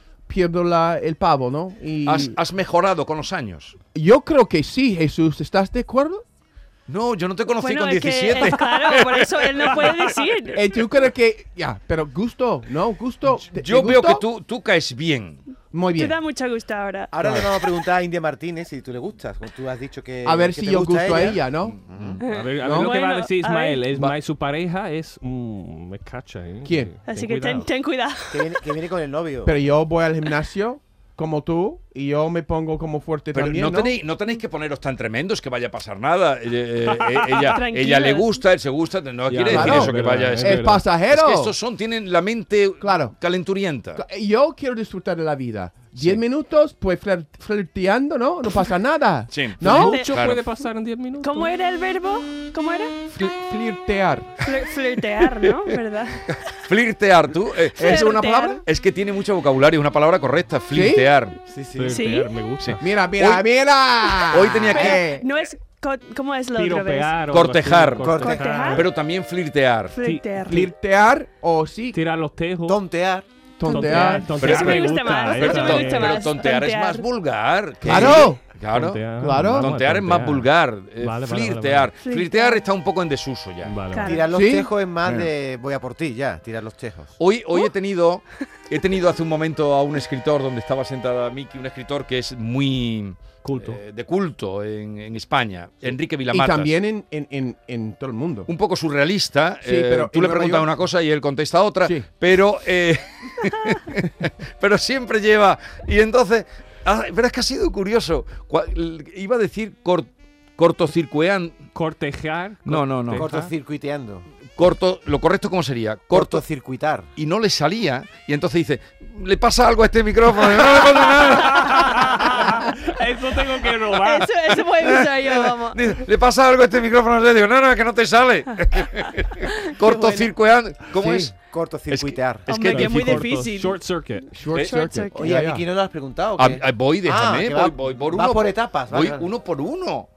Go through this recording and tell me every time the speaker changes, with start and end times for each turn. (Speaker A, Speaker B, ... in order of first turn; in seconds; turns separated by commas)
Speaker A: 0.3-2.4, Speaker B: 2.1-3.8, Speaker A: 3.9-6.2, Speaker B: 6.9-9.7, Speaker C: 7.6-10.7, Speaker D: 9.7-10.2, Speaker A: 10.6-14.2, Speaker B: 13.5-15.4, Speaker A: 15.7-16.1, Speaker C: 16.0-17.1, Speaker E: 17.1-22.2, Speaker A: 17.2-17.5, Speaker A: 20.2-21.8, Speaker C: 22.2-23.9, Speaker D: 22.3-27.7, Speaker A: 22.6-22.9, Speaker A: 26.6-26.9, Speaker C: 27.1-28.7, Speaker E: 28.3-29.6, Speaker A: 29.4-34.0, Speaker B: 33.3-44.0, Speaker D: 36.9-37.6, Speaker C: 37.5-38.4, Speaker D: 39.3-40.8, Speaker A: 39.5-41.5, Speaker A: 42.8-43.2, Speaker A: 44.0-50.0, Speaker B: 49.3-50.4, Speaker D: 49.6-51.5, Speaker C: 49.8-50.1, Speaker C: 51.2-52.9, Speaker A: 53.1-54.4, Speaker C: 54.5-56.6, Speaker B: 56.3-58.1, Speaker C: 57.8-58.6, Speaker A: 57.8-58.6, Speaker B: 58.6-61.4, Speaker A: 60.7-61.1, Speaker E: 61.5-62.0, Speaker D: 61.8-62.8, Speaker C: 61.9-62.3, Speaker B: 62.6-63.5, Speaker A: 62.8-65.2, Speaker B: 64.2-65.0, Speaker C: 64.7-67.2, Speaker E: 64.7-65.2, Speaker D: 66.6-68.9, Speaker B: 67.3-70.0, Speaker E: 68.0-68.4, Speaker C: 68.2-68.9, Speaker C: 70.0-70.7, Speaker D: 70.0-70.7, Speaker A: 70.4-72.0, Speaker D: 71.9-72.8, Speaker E: 72.7-73.3, Speaker A: 73.6-74.8, Speaker C: 73.6-77.1, Speaker D: 73.7-76.2, Speaker B: 74.3-83.8, Speaker A: 77.8-78.4, Speaker D: 78.7-80.5, Speaker A: 79.2-79.7, Speaker D: 81.0-81.9, Speaker C: 82.0-82.6, Speaker D: 83.6-84.1, Speaker C: 83.9-84.4, Speaker E: 84.0-87.2, Speaker A: 84.3-84.7, Speaker B: 87.2-96.7, Speaker D: 93.4-93.8, Speaker A: 96.3-98.5, Speaker B: 98.5-111.6, Speaker A: 99.6-100.7, Speaker A: 101.8-102.1, Speaker D: 111.7-113.5, Speaker B: 112.7-113.3, Speaker E: 113.1-114.3, Speaker B: 114.6-116.4, Speaker E: 116.1-117.1, Speaker B: 117.2-122.4, Speaker D: 121.3-124.3, Speaker C: 123.9-125.8, Speaker B: 124.8-131.4, Speaker A: 129.9-130.2, Speaker A: 131.0-131.3, Speaker E: 131.4-132.5, Speaker B: 131.9-133.2, Speaker C: 132.5-133.8, Speaker D: 132.6-134.3, Speaker A: 134.3-135.7, Speaker C: 134.6-135.4, Speaker E: 135.1-139.3, Speaker B: 136.4-140.1